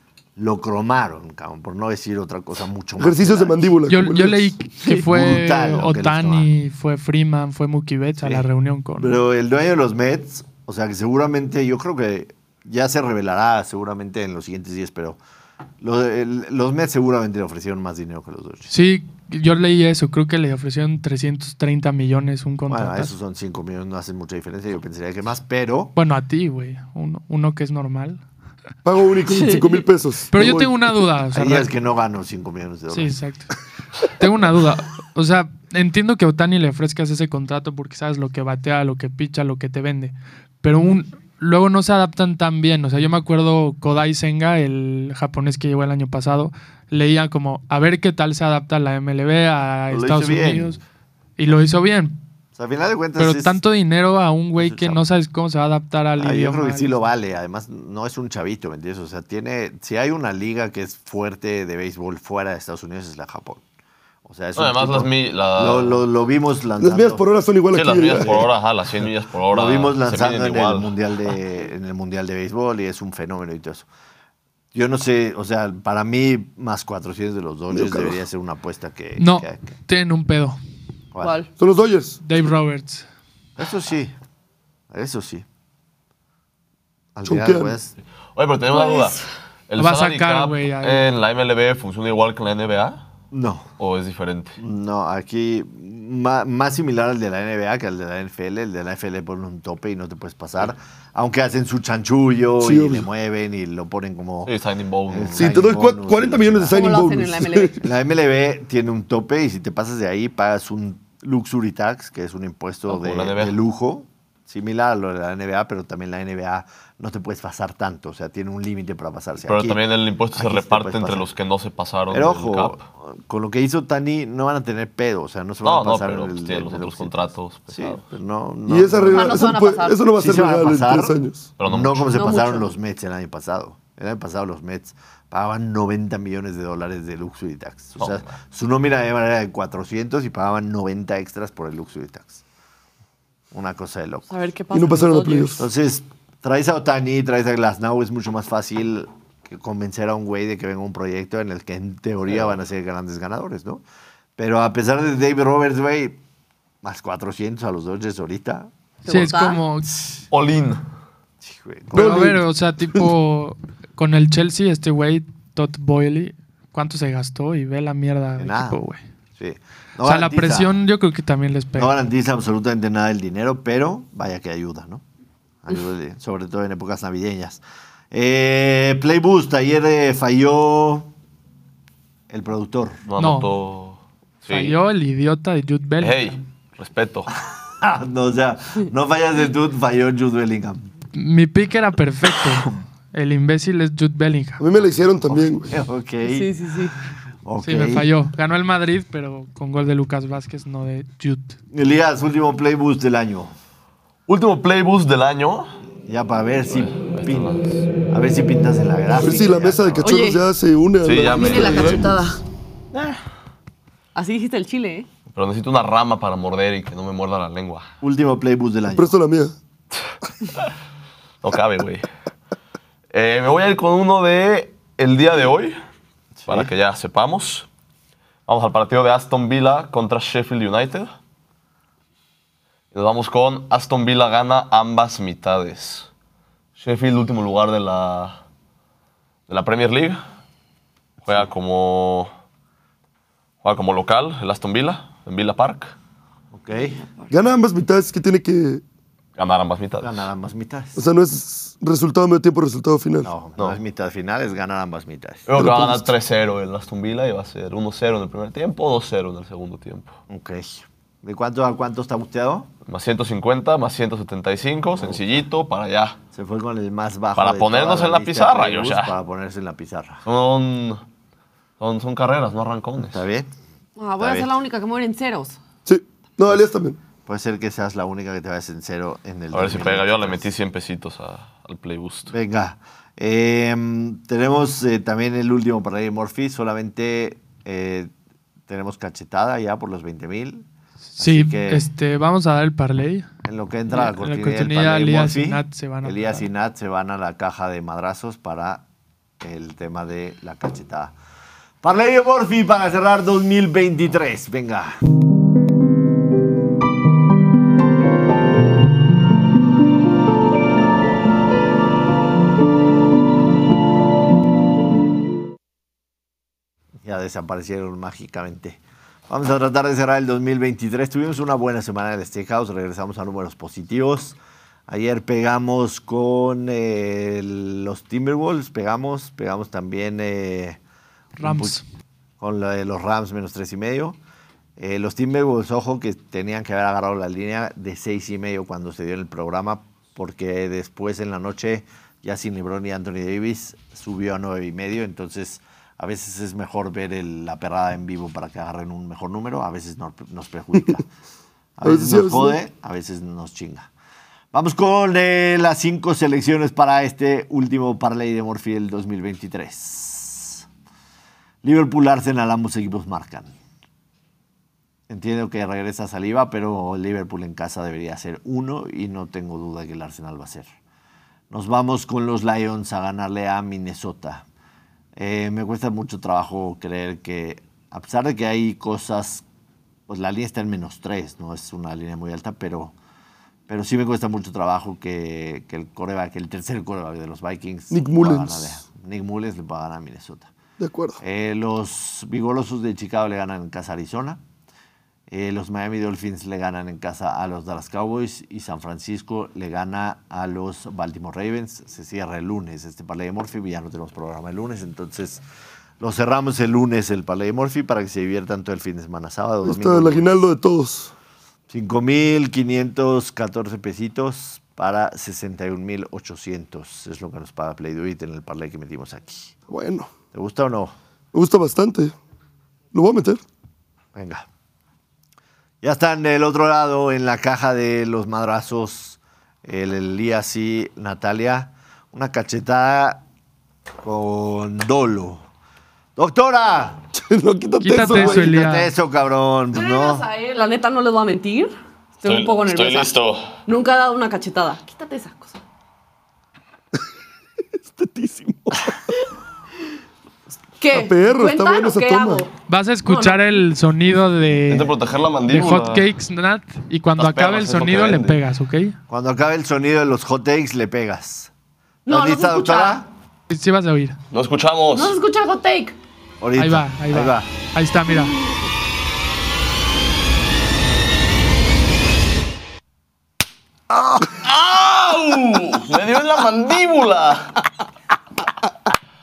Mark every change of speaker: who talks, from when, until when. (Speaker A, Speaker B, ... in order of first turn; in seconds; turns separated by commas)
Speaker A: 0.4-3.7, Speaker B: 3.0-4.5, Speaker C: 3.9-9.2, Speaker A: 4.9-6.5, Speaker A: 9.0-15.2, Speaker A: 15.8-18.7, Speaker C: 18.7-23.1, Speaker A: 22.7-25.9, Speaker C: 26.0-28.2, Speaker B: 28.9-30.9, Speaker D: 29.3-29.7, Speaker C: 30.3-31.7, Speaker A: 31.3-33.1, Speaker C: 32.9-33.5, Speaker C: 34.2-50.8, Speaker A: 49.9-50.8, Speaker C: 51.4-52.2, Speaker A: 52.6-53.6, Speaker C: 53.2-57.0, Speaker A: 54.6-55.0, Speaker A: 56.2-63.6, Speaker A: 64.2-67.2, Speaker E: 64.6-66.0, Speaker B: 66.8-68.4, Speaker E: 67.7-71.3, Speaker A: 68.2-68.5, Speaker A: 69.5-73.9, Speaker A: 74.7-79.7, Speaker B: 77.7-78.2, Speaker C: 79.2-80.6, Speaker D: 81.2-81.5, Speaker B: 81.6-82.2, Speaker C: 82.2-83.0, Speaker A: 83.6-84.1, Speaker A: 84.9-85.5, Speaker A: 87.2-87.9, Speaker B: 87.2-87.8, Speaker E: 88.4-93.0, Speaker D: 88.7-89.2, Speaker C: 89.8-91.1, Speaker A: 93.3-93.7, Speaker E: 93.8-94.6, Speaker A: 94.6-104.5, Speaker B: 102.6-103.1, Speaker E: 104.5-105.7, Speaker A: 105.1-106.8, Speaker B: 105.3-107.8, Speaker D: 106.7-107.9, Speaker A: 107.8-119.8, Speaker E: 112.9-113.6, Speaker E: 119.5-122.8, Speaker A: 120.3-121.3, Speaker A: 122.1-127.2, Speaker E: 125.6-128.0, Speaker A: 127.7-129.6, Speaker B: 128.7-131.5, Speaker D: 129.1-130.1, Speaker A: 130.1-142.4, Speaker E: 131.6-132.1, Speaker D: 132.1-132.7, Speaker E: 138.0-138.3, Speaker A: 143.5-144.3, Speaker D: 144.3-145.6, Speaker B: 144.7-145.7, Speaker A: 145.6-153.8, Speaker A: 154.4-156.2, Speaker A: 156.8-158.7, Speaker D: 159.1-159.6, Speaker C: 159.1-159.9, Speaker E: 160.3-160.8, Speaker A: 161.4-162.4, Speaker B: 161.9-162.4, Speaker C: 161.9-169.0, Speaker A: 168.4-168.8, Speaker A: 169.4-170.8, Speaker C: 170.0-171.9, Speaker A: 171.8-175.0, Speaker A: 175.6-177.6, Speaker A: 178.1-181.1, Speaker A: 182.3-183.1, Speaker E: 183.1-184.8, Speaker C: 183.2-183.5, Speaker C: 184.4-186.4, Speaker E: 186.0-187.3, Speaker A: 187.7-190.9, Speaker C: 191.2-194.6, Speaker B: 194.6-195.8, Speaker A: 195.3-196.5, Speaker D: 196.2-197.0, Speaker A: 197.4-198.1, Speaker C: 197.6-201.6, Speaker A: 201.7-203.5, Speaker E: 204.3-205.7, Speaker A: 206.1-207.5, Speaker E: 206.7-207.9, Speaker A: 208.1-210.0, Speaker B: 209.1-212.1, Speaker D: 210.0-210.4, Speaker E: 211.0-212.1, Speaker D: 211.3-212.4, Speaker E: 212.9-213.2, Speaker D: 214.2-215.1, Speaker E: 215.3-217.9, Speaker A: 218.0-219.1, Speaker B: 218.9-219.6, Speaker E: 221.4-222.1, Speaker E: 223.1-225.8, Speaker A: 226.4-226.7, Speaker E: 226.5-227.7, Speaker E: 228.5-231.1, Speaker E: 232.9-236.1, Speaker E: 236.8-238.4, Speaker E: 239.5-240.2, Speaker E: 241.2-242.3, Speaker E: 243.6-245.9, Speaker A: 246.5-247.0, Speaker D: 246.9-247.3, Speaker B: 247.3-248.8, Speaker E: 249.4-250.3, Speaker A: 250.0-251.0, Speaker B: 251.0-253.3, Speaker A: 253.2-255.8, Speaker E: 255.5-260.2, Speaker B: 255.6-256.1, Speaker A: 260.3-262.7, Speaker E: 262.9-266.2, Speaker A: 265.0-265.2, Speaker A: 266.3-270.2, Speaker E: 267.4-269.1, Speaker E: 270.2-271.0, Speaker E: 271.8-273.2, Speaker A: 273.1-273.5, Speaker D: 274.0-275.6, Speaker A: 274.2-274.5, Speaker B: 275.9-277.0, Speaker A: 277.3-280.4, Speaker E: 279.5-282.3, Speaker A: 282.3-288.1, Speaker A: 288.7-290.7, Speaker C: 291.2-293.3, Speaker A: 291.2-291.9, Speaker A: 293.5-298.8, Speaker C: 293.9-296.5, Speaker A: 299.4-301.1, Speaker A: 301.8-305.0, Speaker A: 317.0-330.8, Speaker C: 331.4-331.8, Speaker A: 331.4-331.8, Speaker A: 332.4-334.2, Speaker A: 334.8-351.1, Speaker A: 351.8-353.9, Speaker B: 351.8-352.6, Speaker A: 354.5-360.7, Speaker A: 361.6-363.5, Speaker A: 365.1-370.7, Speaker A: 371.5-374.4, Speaker A: 375.2-379.4, Speaker A: 380.1-382.9, Speaker A: 383.7-390.5, Speaker B: 387.9-388.8, Speaker B: 390.8-391.2, Speaker A: 391.2-394.4, Speaker A: 395.3-405.4, Speaker A: 406.0-410.2, Speaker B: 409.6-411.1, Speaker A: 411.7-419.6, Speaker B: 419.7-420.1, Speaker A: 420.3-420.9, Speaker B: 421.3-422.1, Speaker B: 422.9-423.4, Speaker A: 424.1-424.5, Speaker A: 425.8-433.2, Speaker A: 434.0-435.4, Speaker A: 436.2-437.0, Speaker B: 437.1-438.5, Speaker C: 437.8-438.9, Speaker A: 437.9-440.3, Speaker D: 439.7-443.1, Speaker E: 442.2-443.5, Speaker D: 443.7-445.6, Speaker B: 447.7-449.1, Speaker D: 450.8-452.5, Speaker B: 450.9-452.4, Speaker C: 452.7-459.0, Speaker D: 453.1-453.5, Speaker E: 454.7-456.1, Speaker E: 457.2-458.4, Speaker A: 459.1-461.5, Speaker D: 462.1-463.0, Speaker A: 462.1-463.1, Speaker C: 463.5-464.2, Speaker E: 464.3-465.1, Speaker D: 464.9-466.0, Speaker A: 466.4-467.5, Speaker C: 466.6-468.4, Speaker E: 474.2-477.5